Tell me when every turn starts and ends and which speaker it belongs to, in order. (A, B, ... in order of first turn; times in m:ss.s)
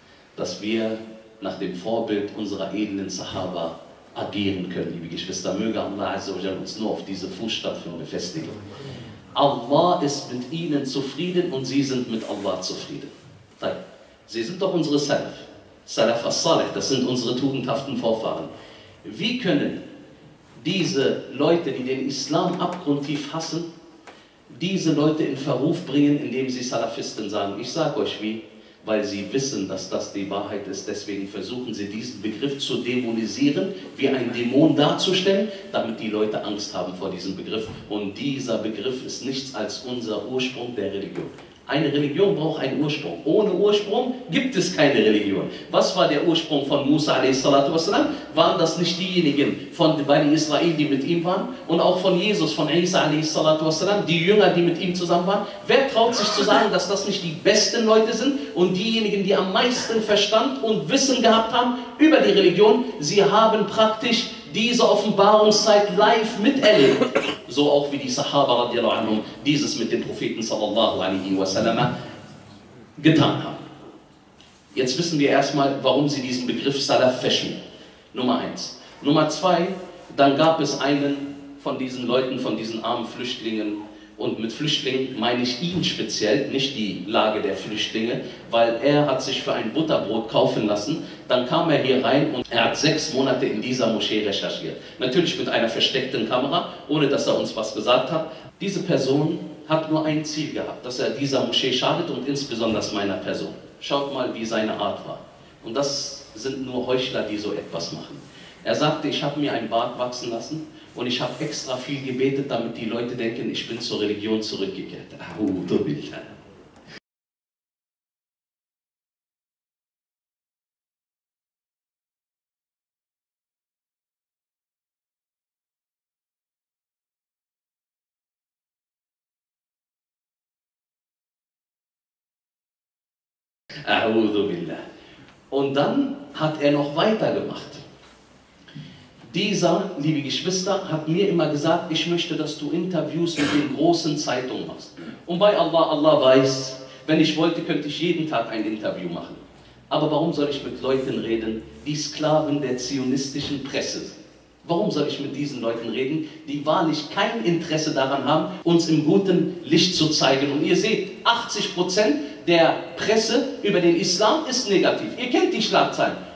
0:00.3-0:08.6 A
0:09.3-0:18.5 A
0:19.0-0:19.8 A
0:20.6-0:23.7 A
0:24.5-1:11.9 A
1:13.0-1:13.6 A
1:14.7-1:17.6 A
1:18.1-1:56.4 A
2:13.8-2:14.8 A
2:15.5-2:17.8 A
2:19.3-2:46.2 A